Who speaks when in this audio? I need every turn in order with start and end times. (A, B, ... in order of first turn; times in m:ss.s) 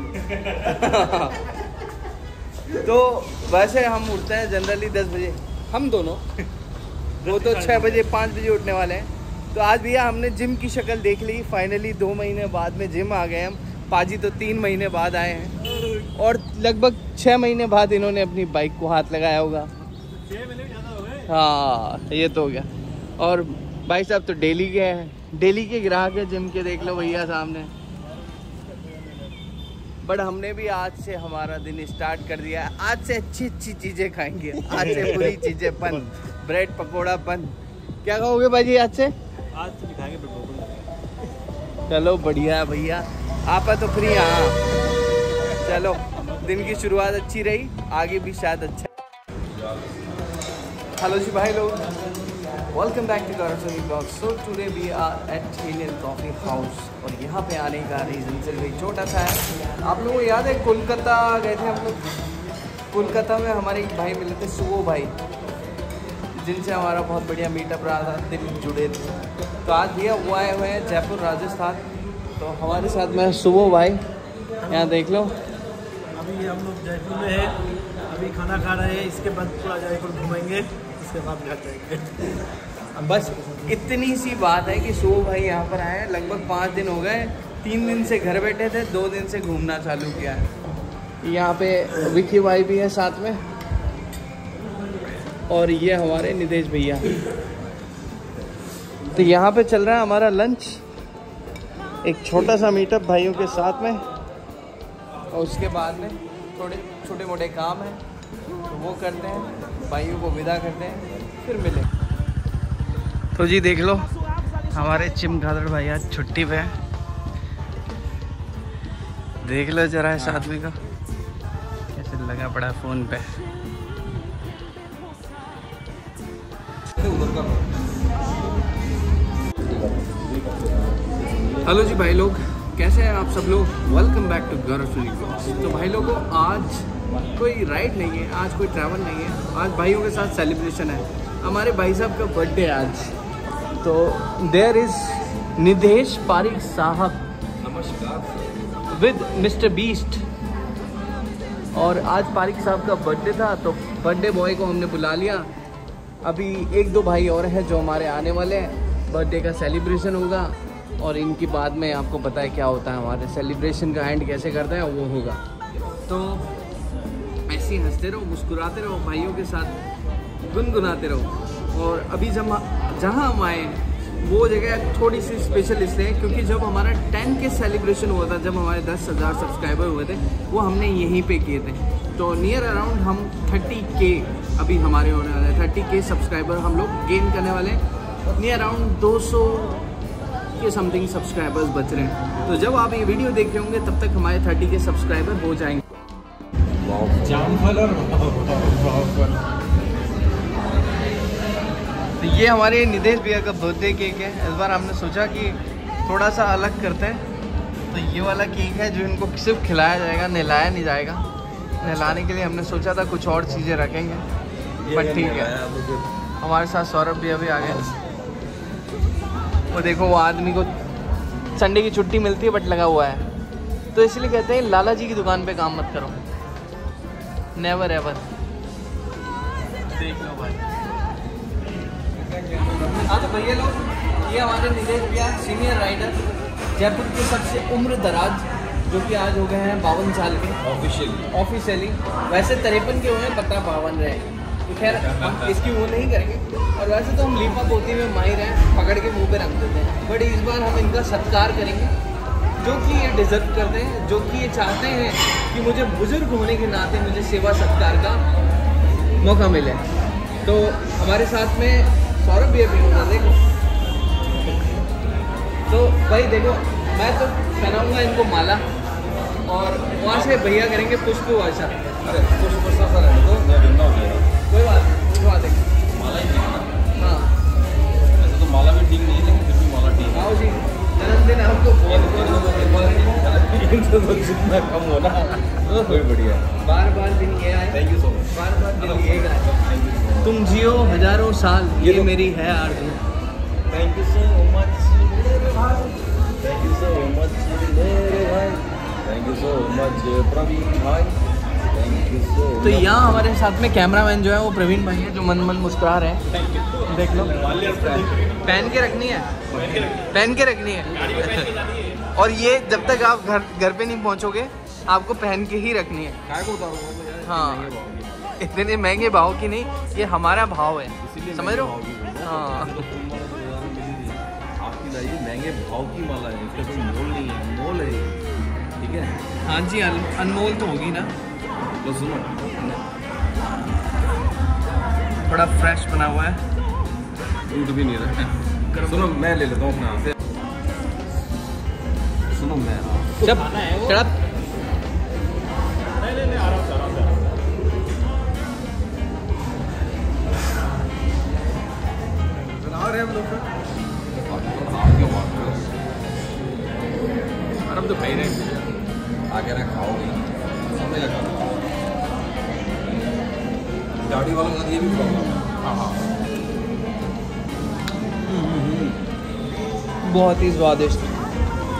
0:00.5-0:01.4 A
0:02.7-0:06.2 A
0:07.2-0:19.7 A
0:20.3-0:21.2 B
0:21.3-0:27.7 A
0:30.0-0:39.1 A
0:39.5-0:40.9 B
0:41.9-0:44.6 A
0:45.6-0:48.9 A
0:51.0-0:51.9 A
0:52.7-1:02.0 A
1:02.9-1:05.1 A
1:06.3-1:09.1 A
1:09.6-1:11.8 A
1:12.4-1:14.0 A
1:14.7-1:15.3 A
1:16.2-1:22.3 B
1:23.0-1:23.6 B
1:23.7-1:30.5 A
1:31.2-1:33.4 A
1:35.5-1:37.1 A
1:39.1-1:40.8 A
1:42.0-1:44.1 A
1:45.3-1:48.0 A
1:48.7-1:51.9 A
1:53.4-1:54.1 A
1:54.7-1:56.8 A
1:59.4-2:00.8 A
2:01.9-2:03.4 A
2:07.0-2:07.7 C
2:09.6-2:11.9 C
2:11.6-2:23.1 A
2:23.8-2:27.2 A
2:27.6-2:28.5 C
2:28.9-2:30.2 A
2:31.7-2:35.5 A
2:36.2-2:45.4 A
2:46.1-2:46.5 A
2:47.5-2:49.8 A
2:50.4-3:09.8 A
3:10.6-3:15.8 A
3:16.8-3:17.8 C
3:17.5-3:19.4 B
3:22.2-3:27.2 A
3:27.9-3:31.3 A
3:31.8-3:34.2 A
3:34.8-3:36.1 C
3:34.9-3:35.6 A
3:36.4-3:37.9 A
3:39.7-3:40.7 A
3:41.6-3:43.2 A
3:43.9-3:46.2 A
3:47.6-3:48.2 A
3:49.9-3:50.6 A
3:52.4-3:53.2 C
3:53.0-3:56.2 A
3:56.8-4:00.6 A
4:00.6-4:01.3 C
4:01.3-4:11.9 A
4:04.8-4:05.6 C
4:12.6-4:18.2 A
4:19.2-4:19.8 A
4:20.4-4:23.4 A
4:25.7-4:28.7 A
4:29.5-4:31.8 A
4:30.1-4:30.4 C
4:32.0-4:34.3 C
4:34.5-4:35.7 A
4:35.9-4:36.8 C
4:37.0-4:37.3 A
4:38.2-4:40.3 C
4:40.1-4:43.1 A
4:41.9-4:46.5 C
4:45.6-4:46.0 A
4:46.6-4:49.5 A
4:47.7-4:50.4 C
4:50.2-4:53.0 A
4:51.8-4:52.1 C
4:53.7-5:01.2 C
5:01.7-5:03.3 C
5:02.6-5:06.2 A
5:06.8-5:07.4 A
5:07.1-5:08.2 C
5:08.4-5:09.3 A
5:09.5-5:10.0 C
5:10.0-5:16.2 A
5:16.3-5:18.4 C
5:17.2-5:17.7 A
5:18.4-5:22.8 A
5:21.0-5:28.2 C
5:28.8-5:29.2 C
5:29.4-5:31.1 A
5:31.8-5:32.6 C
5:35.2-5:36.4 A
5:37.5-5:40.1 C
5:38.7-5:39.1 A
5:42.3-5:43.1 C
5:43.2-5:44.2 A
5:43.5-5:43.9 B
5:46.0-5:47.2 B
5:52.6-5:53.5 C
5:54.1-5:55.7 C
5:57.7-5:58.7 C
5:59.3-6:01.6 C
6:04.0-6:05.9 C
6:08.2-6:09.0 C
6:10.0-6:11.1 A